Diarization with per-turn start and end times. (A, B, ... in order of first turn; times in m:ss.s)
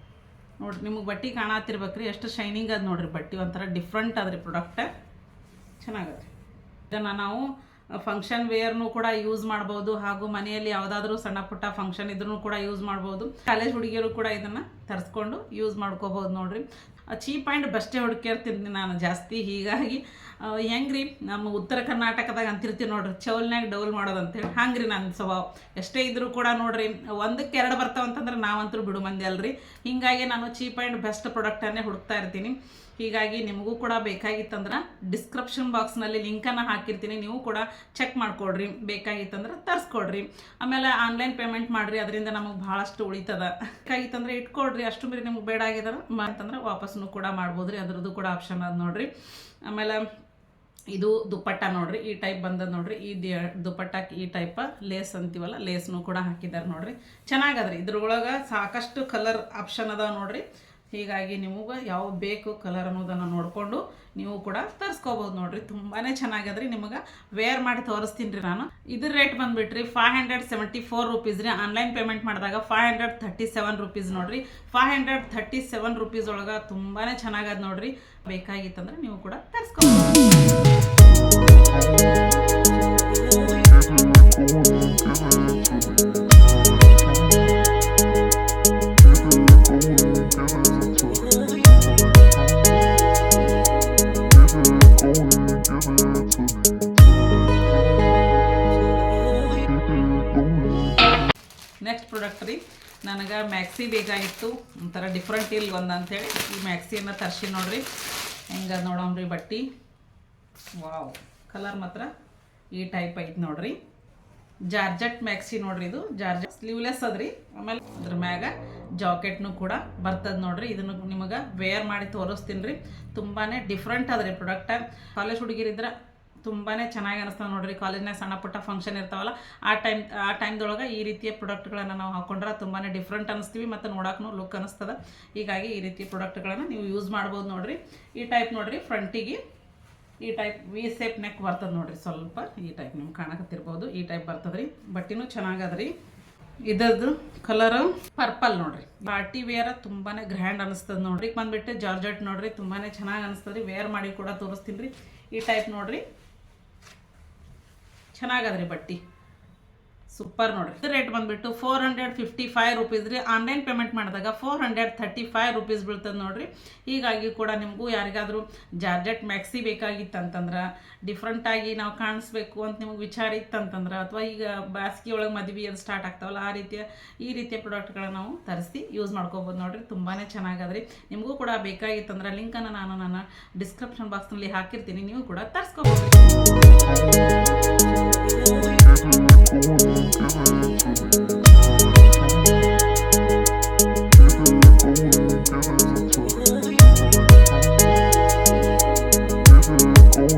0:00.6-0:04.9 A
0:05.8-0:06.3 A
0:06.9-0:49.1 A
0:49.7-0:50.1 A
0:50.9-1:20.3 A
1:41.8-1:47.8 A
1:48.5-1:49.7 A
1:50.8-1:52.1 A
1:52.7-1:53.8 A
1:54.7-2:05.9 A
2:06.4-2:19.4 A
2:20.2-2:25.9 A
2:26.7-2:36.0 A
2:38.1-2:39.0 A
2:40.1-3:06.2 A